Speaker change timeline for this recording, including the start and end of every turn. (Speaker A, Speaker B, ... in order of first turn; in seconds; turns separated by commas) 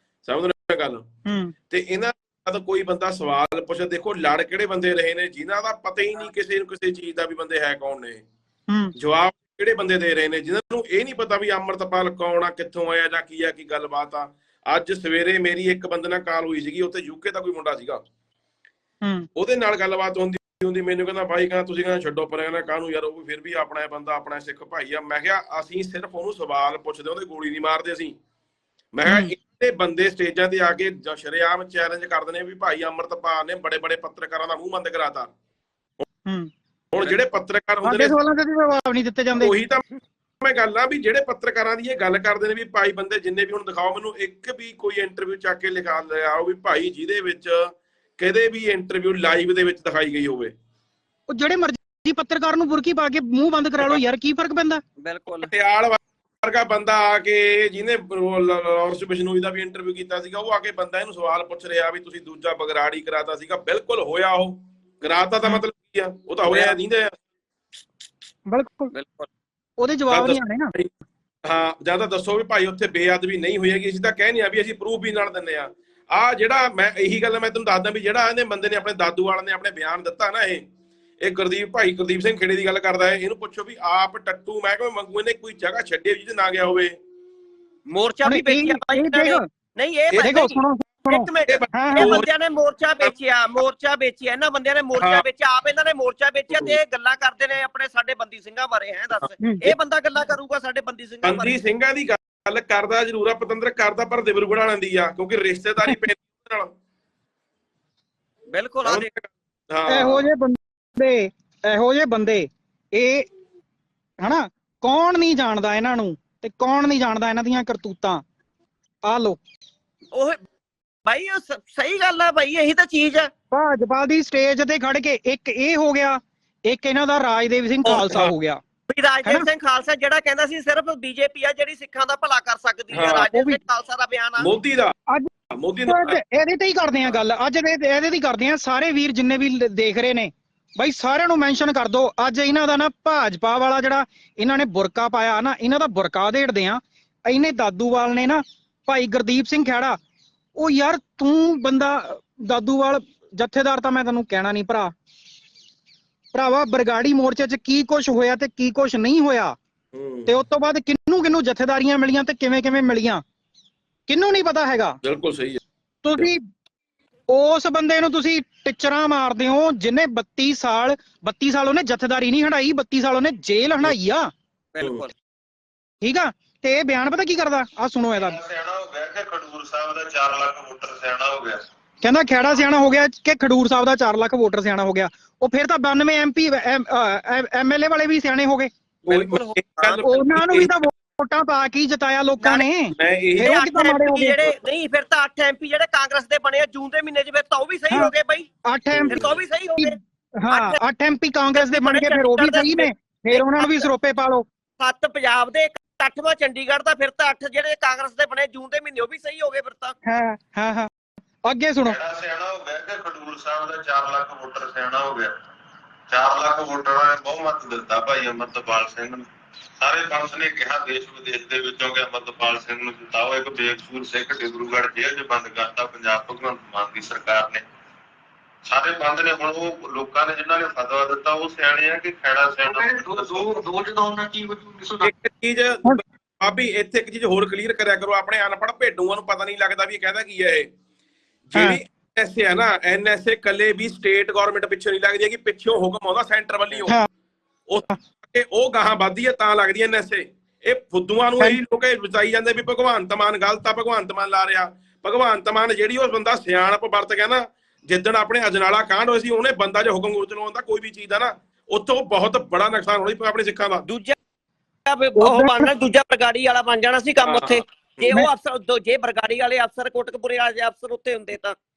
Speaker A: 0.2-1.0, Speaker B: 1.3-1.5, Speaker A: 1.7-8.2, Speaker A: 9.0-18.0, Speaker A: 19.4-28.1, Speaker A: 28.9-35.3, Speaker B: 29.1-29.4, Speaker A: 36.9-38.2, Speaker B: 37.8-39.5, Speaker A: 39.4-39.9, Speaker A: 40.4-50.5, Speaker B: 51.3-54.8, Speaker C: 55.0-55.5, Speaker A: 55.4-67.1, Speaker C: 66.5-66.8, Speaker B: 68.5-68.9, Speaker C: 68.9-69.3, Speaker B: 69.8-70.7, Speaker A: 70.1-70.9, Speaker A: 71.5-80.6, Speaker A: 81.2-87.0, Speaker C: 87.9-101.5, Speaker B: 88.2-89.4, Speaker B: 90.2-92.1, Speaker A: 91.5-92.3, Speaker A: 95.0-95.2, Speaker A: 96.5-96.8, Speaker A: 101.2-106.7, Speaker C: 108.5-109.1, Speaker A: 108.8-110.3, Speaker B: 109.9-113.3, Speaker B: 114.2-118.2, Speaker B: 119.1-119.4, Speaker C: 121.1-123.3, Speaker B: 123.5-128.6, Speaker C: 127.8-128.2, Speaker C: 128.9-134.5, Speaker A: 132.9-133.3, Speaker B: 133.3-133.6, Speaker A: 134.4-134.9, Speaker A: 135.5-136.2, Speaker B: 135.9-150.0, Speaker B: 150.6-154.9, Speaker B: 156.3-159.6, Speaker A: 159.9-160.3, Speaker B: 160.3-163.2, Speaker B: 164.1-165.0, Speaker A: 165.0-165.6, Speaker B: 166.0-166.4, Speaker B: 167.3-174.3, Speaker C: 174.7-175.1, Speaker A: 174.8-175.1, Speaker B: 176.0-178.4, Speaker D: 178.2-181.6, Speaker B: 182.0-188.7, Speaker C: 189.0-190.0, Speaker A: 189.1-190.8, Speaker B: 190.0-194.5, Speaker C: 192.4-192.7, Speaker A: 193.0-193.5, Speaker C: 193.4-198.5, Speaker B: 198.7-199.2, Speaker A: 198.9-199.4, Speaker C: 199.1-200.0, Speaker B: 199.8-204.4, Speaker C: 200.5-200.8, Speaker C: 201.6-203.9, Speaker C: 204.8-210.0, Speaker B: 210.1-210.9, Speaker B: 211.4-212.0, Speaker D: 211.8-215.3, Speaker D: 216.1-219.2, Speaker D: 219.8-227.6, Speaker D: 228.7-233.5, Speaker E: 232.7-235.1, Speaker A: 235.0-240.7, Speaker A: 241.5-247.0, Speaker A: 247.7-263.9, Speaker C: 263.9-264.2, Speaker C: 264.9-271.6, Speaker B: 265.2-265.7, Speaker A: 267.2-267.6